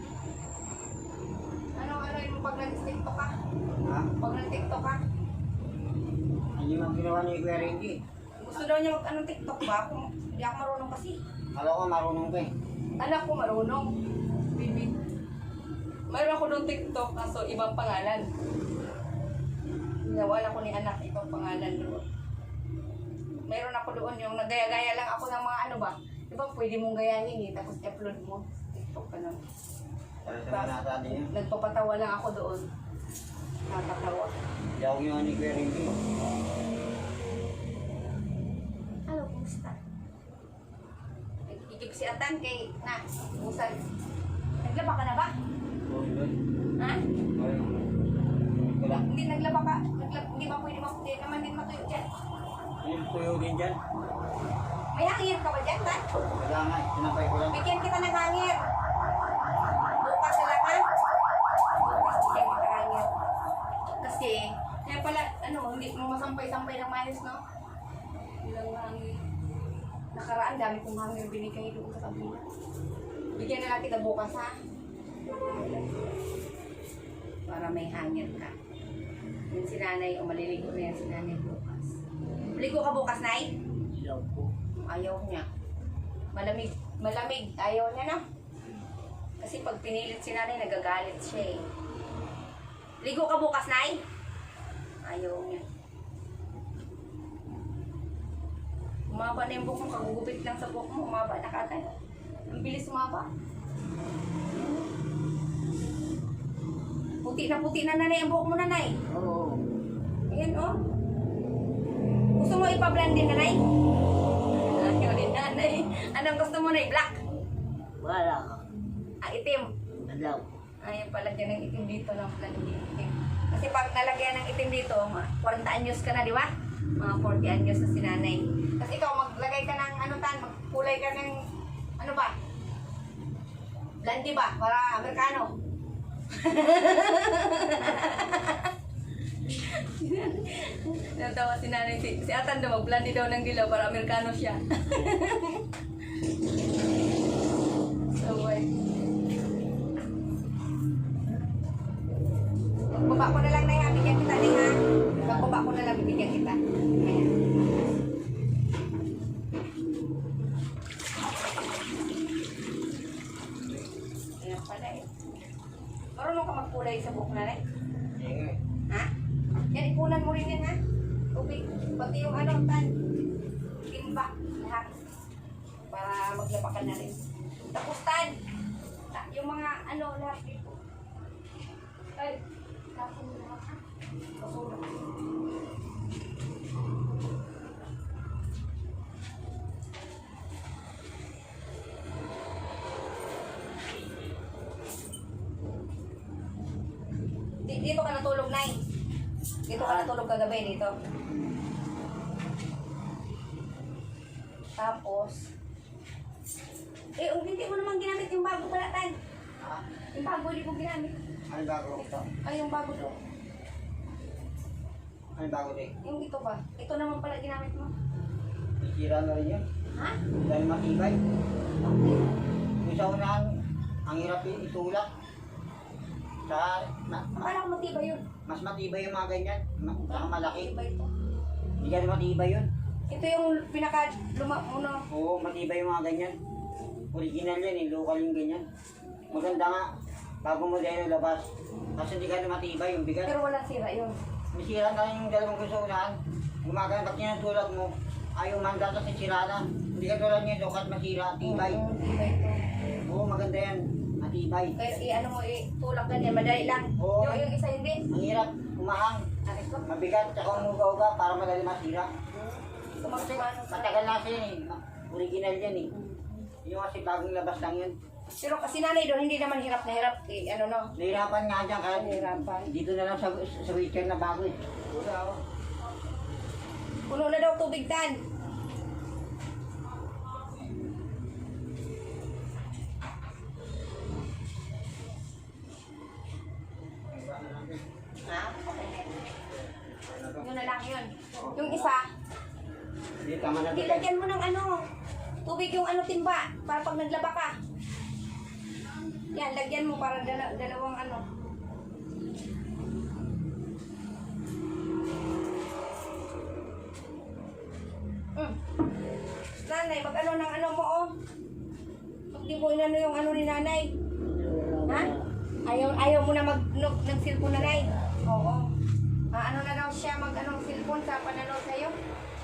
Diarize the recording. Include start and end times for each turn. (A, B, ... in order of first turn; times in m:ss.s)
0:01.8-0:03.3 A
0:03.7-0:04.1 B
0:04.2-0:05.0 A
0:06.6-0:08.0 B
0:08.4-0:11.2 A
0:11.5-0:12.5 B
0:13.0-0:13.9 A
0:14.5-0:14.9 A
0:16.1-0:18.3 A
0:20.0-0:22.0 A
0:23.5-0:29.4 A
0:30.2-0:31.3 B
0:30.4-0:32.7 A
0:33.7-0:34.3 A
0:34.8-0:35.9 B
0:39.1-0:39.8 A
0:41.5-0:43.8 A
0:44.6-0:45.3 A
0:45.9-0:46.3 B
0:46.8-0:47.0 A
0:47.4-0:47.8 B
0:48.4-0:49.0 B
0:49.0-0:52.0 A
0:52.8-0:53.8 B
0:54.9-0:56.0 A
0:56.2-0:57.6 B
0:57.5-0:58.6 A
1:00.0-1:00.8 A
1:01.8-1:03.1 A
1:04.0-1:07.4 A
1:08.4-1:09.2 A
1:10.1-1:12.4 A
1:13.3-1:14.5 A
1:15.5-1:15.9 A
1:17.5-1:18.5 A
1:19.5-1:21.9 A
1:22.5-1:23.5 A
1:23.9-1:24.5 C
1:24.8-1:25.4 A
1:26.3-1:28.2 A
1:29.4-1:31.6 A
1:33.0-1:34.0 A
1:35.0-1:35.6 A
1:39.1-1:41.9 A
1:42.5-1:43.3 A
1:44.5-1:44.8 A
1:47.2-1:48.9 A
1:49.1-1:49.6 C
1:50.3-1:50.8 A
1:52.4-1:53.6 A
1:54.6-1:57.2 A
1:58.0-1:58.6 C
1:59.2-1:59.7 A
2:00.0-2:00.4 C
2:00.8-2:11.4 A
2:12.0-2:12.3 A
2:14.0-2:15.5 A
2:16.3-2:18.7 A
2:19.4-2:25.6 A
2:28.1-2:28.7 A
2:32.9-2:37.3 A
2:44.4-2:45.1 A
2:46.1-2:47.6 A
2:48.2-2:48.6 B
2:49.7-2:50.8 A
2:51.3-2:52.9 A
2:53.8-2:54.9 A
2:55.9-2:57.2 A
2:57.7-2:58.3 A
2:59.1-3:00.8 A
3:02.9-3:03.8 A
3:04.4-3:04.8 A
3:17.6-3:18.8 A
3:19.7-3:20.9 A
3:19.8-3:20.1 C
3:24.8-3:25.5 A
3:27.2-3:29.2 A
3:29.6-3:29.8 B
3:30.1-3:31.2 A
3:31.5-3:32.1 B
3:32.0-3:33.2 A
3:35.4-3:35.9 B
3:36.0-3:37.9 A
3:38.8-3:39.6 B
3:39.9-3:40.2 A
3:40.4-3:41.2 B
3:41.8-3:42.2 A
3:42.8-3:43.5 B
3:44.0-3:45.1 B
3:46.4-3:47.5 B
3:47.4-3:48.2 A
3:48.5-3:50.7 B
3:50.1-3:51.1 A
3:51.8-3:52.7 B
3:53.1-3:55.0 A
3:55.1-3:56.3 B
3:56.8-3:57.0 A
3:57.1-3:58.6 B
3:59.3-3:59.6 A
3:59.3-3:59.9 B
4:00.4-4:03.3 B
4:03.2-4:04.2 A
4:04.5-4:11.8 B
4:11.4-4:12.6 A
4:13.0-4:15.0 B
4:14.8-4:18.0 A
4:17.0-4:17.5 B
4:18.1-4:19.2 B
4:19.4-4:19.8 A
4:19.8-4:22.1 B
4:22.3-4:24.2 A
4:23.0-4:25.9 B
4:25.9-4:26.4 A
4:26.6-4:27.9 B
4:28.3-4:30.9 A
4:31.0-4:35.4 B
4:31.9-4:32.7 A
4:37.1-4:38.2 A
4:47.1-4:47.8 B
4:48.2-4:49.1 A
4:49.3-4:50.8 B
4:50.4-4:52.1 A
4:51.3-4:51.9 B
4:53.2-4:54.1 B
4:53.7-4:54.8 A
4:55.4-4:57.5 A
4:59.3-5:01.2 A
5:09.6-5:11.1 A
5:12.3-5:13.9 A
5:14.2-5:15.2 C
5:15.6-5:18.7 A
5:17.5-5:18.1 C
5:19.3-5:21.9 A